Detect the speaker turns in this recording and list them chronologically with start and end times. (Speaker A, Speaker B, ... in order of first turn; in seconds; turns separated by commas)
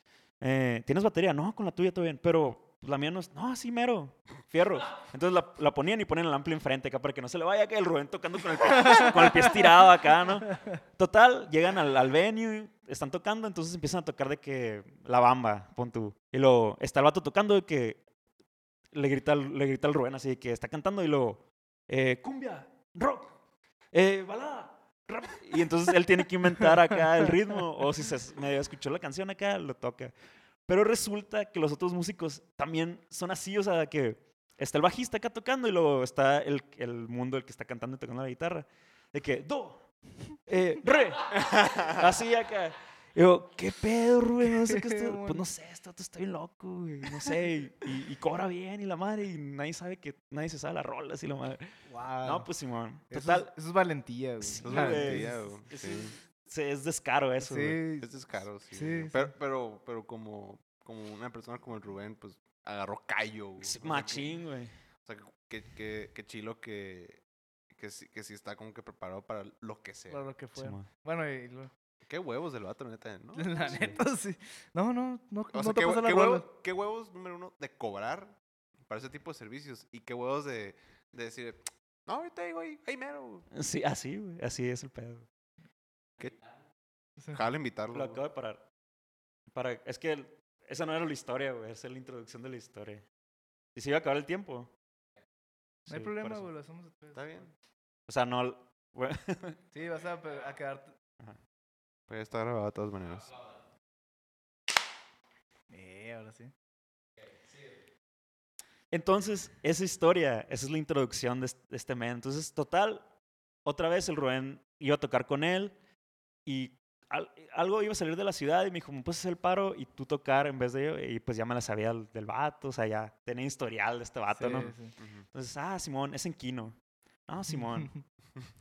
Speaker A: 0.4-18.0, Speaker A: 18.9-23.3, Speaker A: 23.9-30.1, Speaker A: 30.7-39.9, Speaker A: 40.4-51.7, Speaker B: 41.5-42.0, Speaker C: 44.4-45.4, Speaker C: 51.9-52.5, Speaker A: 52.2-53.5, Speaker C: 53.1-55.5, Speaker A: 54.4-57.8, Speaker B: 54.6-56.1, Speaker C: 57.4-58.1, Speaker B: 58.0-64.3, Speaker C: 58.7-59.3, Speaker A: 63.6-64.7, Speaker B: 65.0-70.3, Speaker C: 70.1-71.7, Speaker A: 70.6-70.9, Speaker B: 72.0-74.0, Speaker C: 73.3-76.5, Speaker B: 75.5-83.5, Speaker A: 83.5-85.3, Speaker B: 87.3-88.2, Speaker A: 87.9-88.6, Speaker A: 89.5-93.0, Speaker A: 93.7-94.7, Speaker A: 95.9-96.5, Speaker C: 95.9-97.5, Speaker B: 97.1-97.5, Speaker A: 98.1-99.6, Speaker C: 99.7-100.9, Speaker B: 102.1-103.3, Speaker C: 105.7-106.5, Speaker A: 108.9-113.0, Speaker A: 113.7-115.7, Speaker A: 116.5-124.7, Speaker C: 124.3-124.9, Speaker B: 125.0-125.2, Speaker A: 125.3-126.8, Speaker A: 127.3-127.9